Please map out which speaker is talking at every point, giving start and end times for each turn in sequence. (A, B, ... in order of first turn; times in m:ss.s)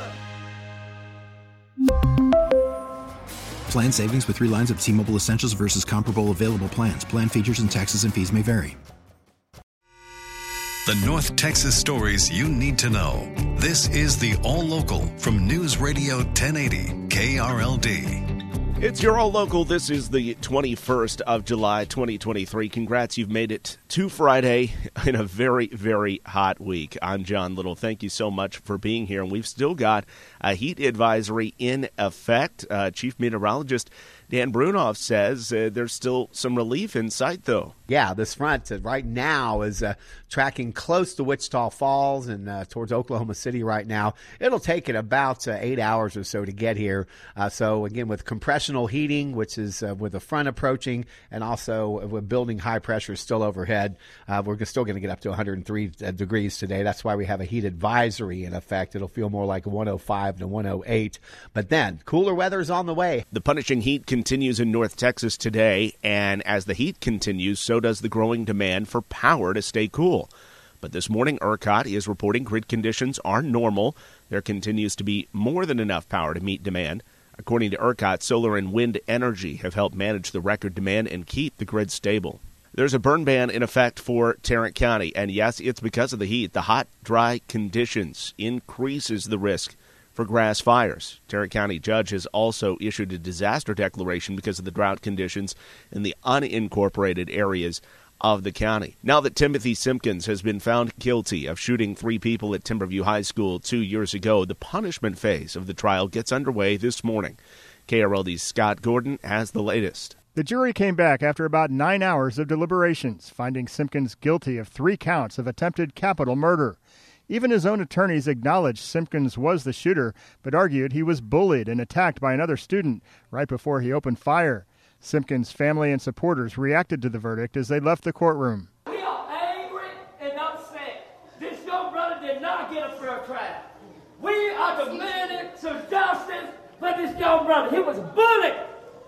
0:03.7-0:08.8 A
0:10.9-0:18.2 B
0:18.8-0:37.8 C
0:37.9-1:03.2 D
1:03.3-1:10.3 C
1:10.8-1:50.2 C
1:50.4-2:08.7 E
2:08.9-2:13.7 F
2:14.2-2:18.7 F